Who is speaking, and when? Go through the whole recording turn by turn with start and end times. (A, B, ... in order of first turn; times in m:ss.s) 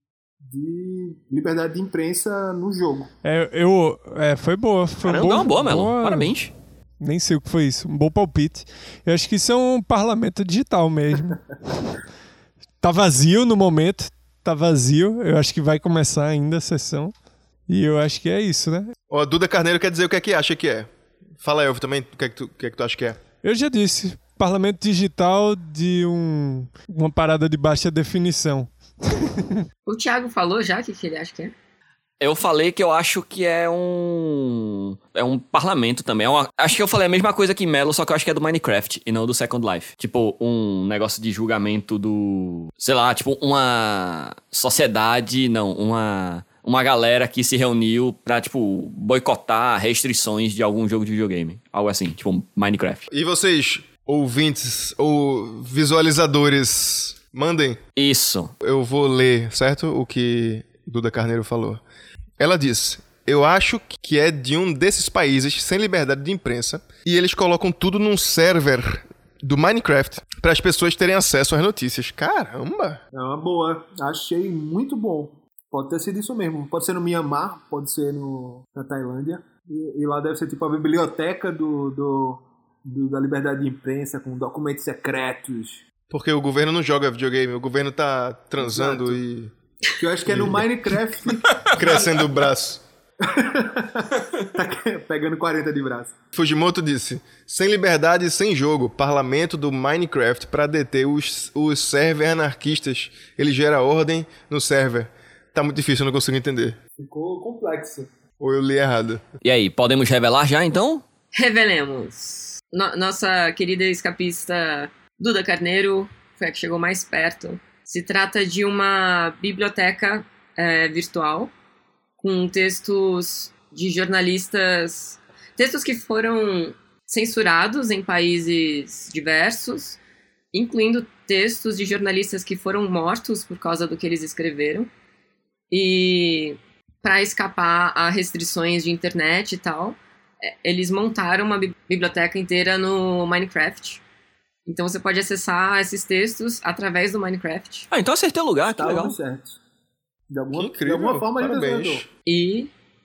0:00.4-0:03.1 A
0:03.2-0:06.3 B
0:05.0-0:06.5 C
0:07.0-0:12.0 B
0:12.8-0:17.1 B
0:17.7-0:18.9 B
0:19.1-0:20.9 D
0:21.4-0:23.2 D
0:23.4-0:29.6 B
0:29.9-0:31.5 E
0:32.2-0:53.1 C
0:53.1-0:57.8 D
0:58.0-0:58.5 C
0:58.6-1:01.8 D
1:02.4-1:13.0 D
1:13.1-1:25.8 A
1:26.1-1:29.5 D
1:28.6-1:29.2 A
1:30.0-1:31.7 A
1:30.3-1:30.7 D
1:31.6-1:32.8 D
1:33.2-1:36.1 A
1:36.3-1:46.8 D
1:47.0-1:48.1 A
1:48.4-1:49.2 D
1:49.4-1:51.0 C
1:51.3-2:01.5 E
2:02.2-2:10.0 E
2:10.5-2:14.9 E
2:15.7-2:24.0 E
2:24.7-2:27.9 E
2:27.9-2:29.2 C
2:28.7-2:29.6 A
2:30.3-2:32.1 A
2:30.5-2:32.1 D
2:32.3-2:32.7 E